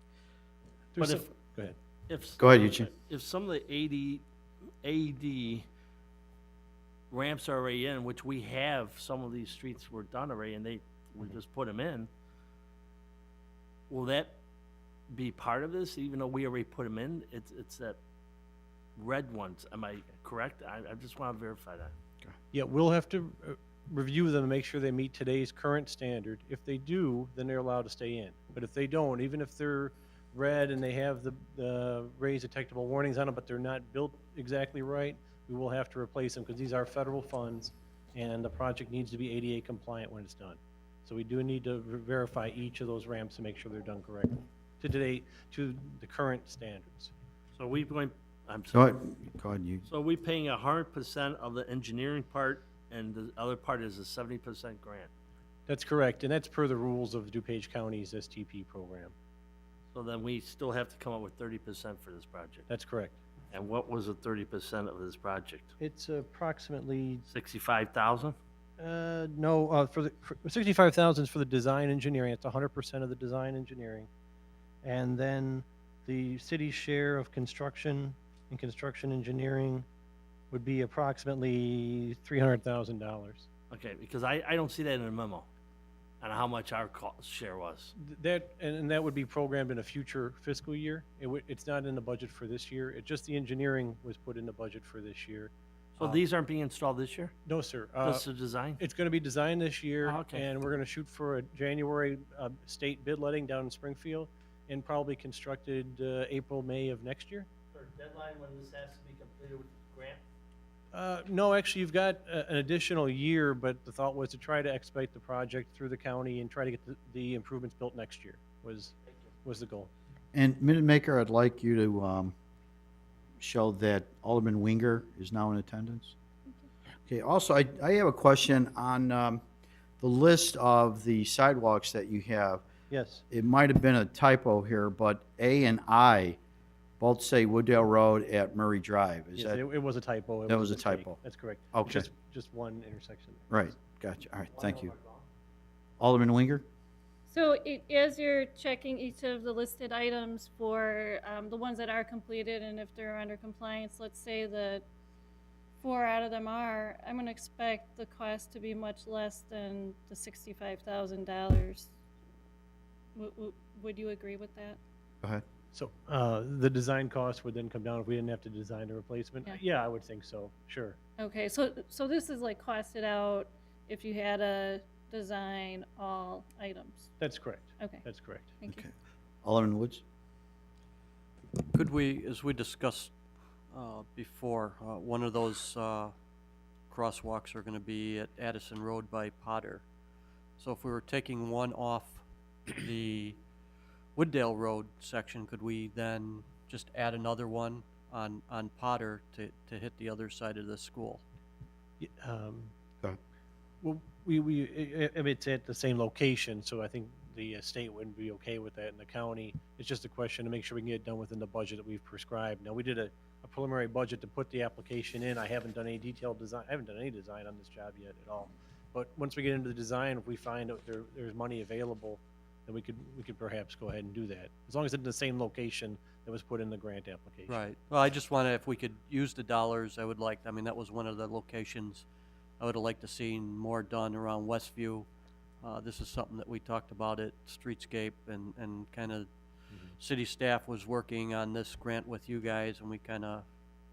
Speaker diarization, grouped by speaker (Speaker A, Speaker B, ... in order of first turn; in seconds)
Speaker A: 0.9-1.8, 22.5-47.1, 55.7-59.1, 62.7-63.2, 65.8-67.3, 68.8-74.1, 74.8-79.8, 80.5-83.5, 88.0-96.2, 97.5-98.3, 98.8-107.5, 110.9-119.9, 132.9-133.2, 139.4-143.6, 144.5-145.2, 165.7-171.0, 177.2-178.5, 202.0-202.7, 203.8-227.6
Speaker B: 1.0-1.3, 2.1-4.2, 4.8-5.7, 7.1-12.1, 13.9-14.4, 15.2-18.0, 19.0-21.9, 47.6-48.9, 49.9-55.1, 60.0-62.7, 63.5-65.7, 67.3-68.4, 83.7-85.5, 86.2-87.9, 96.0-97.3, 98.0-98.8, 100.0-100.5, 107.7-110.2
Speaker C: 2.4-2.9, 48.7-49.9, 120.3-122.3, 123.4-126.2, 127.1-129.4, 130.0-132.6, 133.3-136.4, 137.0-139.6, 140.5-141.2, 141.7-142.1, 143.5-144.9, 146.0-146.7, 178.7-178.9, 179.4-180.0
Speaker D: 147.3-154.8, 155.8-161.9, 163.2-164.8, 171.2-177.2, 177.8-178.1
Speaker E: 181.7-183.1, 183.7-186.1, 186.9-189.8, 190.6-192.2, 192.8-193.4, 194.2-201.2, 227.5-232.1, 232.6-235.1, 235.6-239.3, 240.0-243.4